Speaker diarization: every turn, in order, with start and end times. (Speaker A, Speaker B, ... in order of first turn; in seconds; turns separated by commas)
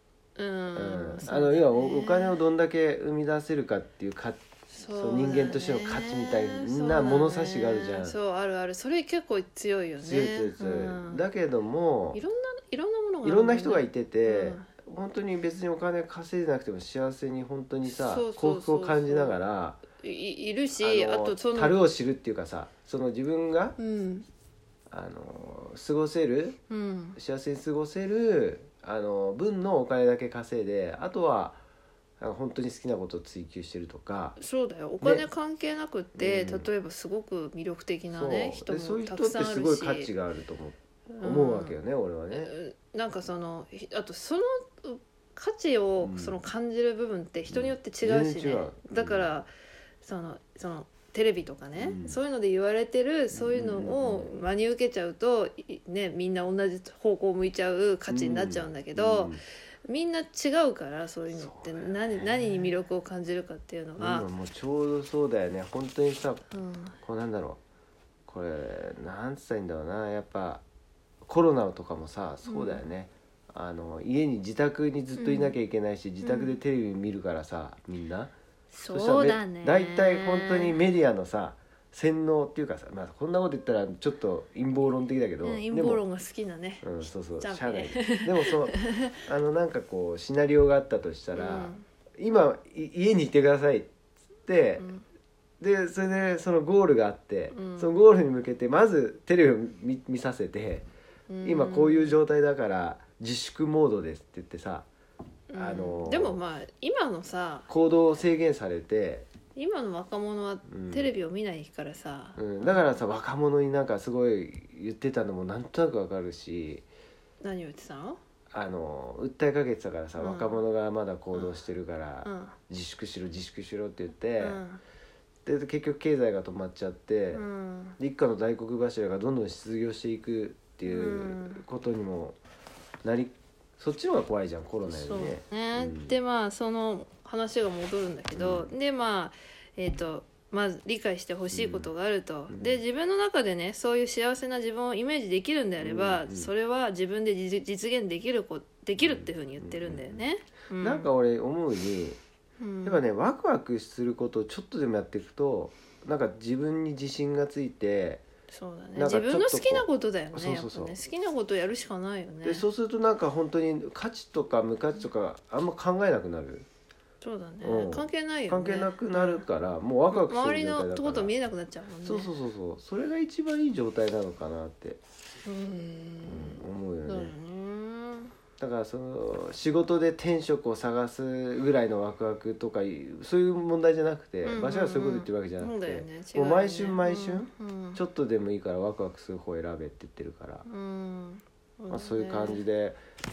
Speaker A: 0.4-2.4, Speaker B: 0.8-8.2, Speaker A: 4.7-11.2, Speaker B: 10.0-12.2, Speaker A: 12.1-14.7, Speaker B: 13.2-19.8, Speaker A: 17.9-19.4, Speaker A: 20.0-21.8, Speaker B: 20.8-23.8, Speaker A: 23.8-24.3, Speaker B: 24.9-26.6, Speaker A: 26.7-27.2, Speaker B: 27.1-31.6, Speaker B: 32.2-34.4, Speaker A: 34.4-40.1, Speaker B: 35.0-35.3, Speaker B: 36.2-36.7, Speaker B: 38.1-42.5, Speaker A: 41.1-41.8, Speaker A: 42.3-49.5, Speaker B: 46.0-46.4, Speaker B: 47.5-49.3, Speaker A: 50.0-59.3, Speaker B: 51.8-52.2, Speaker B: 53.3-54.3, Speaker B: 58.1-59.4, Speaker A: 59.9-64.3, Speaker B: 61.3-62.8, Speaker B: 64.0-66.4, Speaker A: 66.5-67.0, Speaker B: 67.0-67.6, Speaker B: 68.3-70.6, Speaker B: 71.2-78.3, Speaker A: 72.5-72.8, Speaker A: 75.2-75.5, Speaker A: 76.2-76.6, Speaker A: 78.7-80.8, Speaker B: 78.9-86.0, Speaker A: 85.4-89.1, Speaker B: 86.8-93.9, Speaker A: 91.3-91.8, Speaker B: 94.5-94.9, Speaker A: 94.8-95.0, Speaker B: 95.6-100.9, Speaker A: 97.5-97.9, Speaker A: 101.3-102.2, Speaker B: 101.4-104.9, Speaker A: 105.5-107.7, Speaker B: 105.5-106.4, Speaker B: 107.7-109.3, Speaker A: 109.5-113.0, Speaker B: 110.7-111.1, Speaker B: 112.3-116.8, Speaker A: 117.4-118.2, Speaker B: 118.5-124.6, Speaker A: 120.2-120.6, Speaker A: 121.3-121.6, Speaker A: 122.2-122.5, Speaker A: 124.4-124.8, Speaker B: 125.4-127.4, Speaker A: 127.3-128.0, Speaker B: 128.0-132.4, Speaker A: 130.8-131.6, Speaker B: 133.0-136.2, Speaker A: 134.9-151.1, Speaker B: 138.3-138.7, Speaker B: 141.5-141.9, Speaker B: 142.5-142.8, Speaker B: 145.8-146.5, Speaker B: 149.0-150.2, Speaker B: 150.8-152.2, Speaker A: 152.6-153.0, Speaker B: 152.8-158.2, Speaker A: 158.5-162.7, Speaker B: 158.9-161.0, Speaker B: 162.4-166.7, Speaker A: 167.2-169.4, Speaker B: 167.6-171.3, Speaker A: 170.1-172.3, Speaker B: 172.0-175.0, Speaker A: 175.4-178.3, Speaker B: 176.2-177.3, Speaker B: 178.6-190.7, Speaker A: 184.4-188.0, Speaker A: 190.7-192.6, Speaker B: 191.9-193.0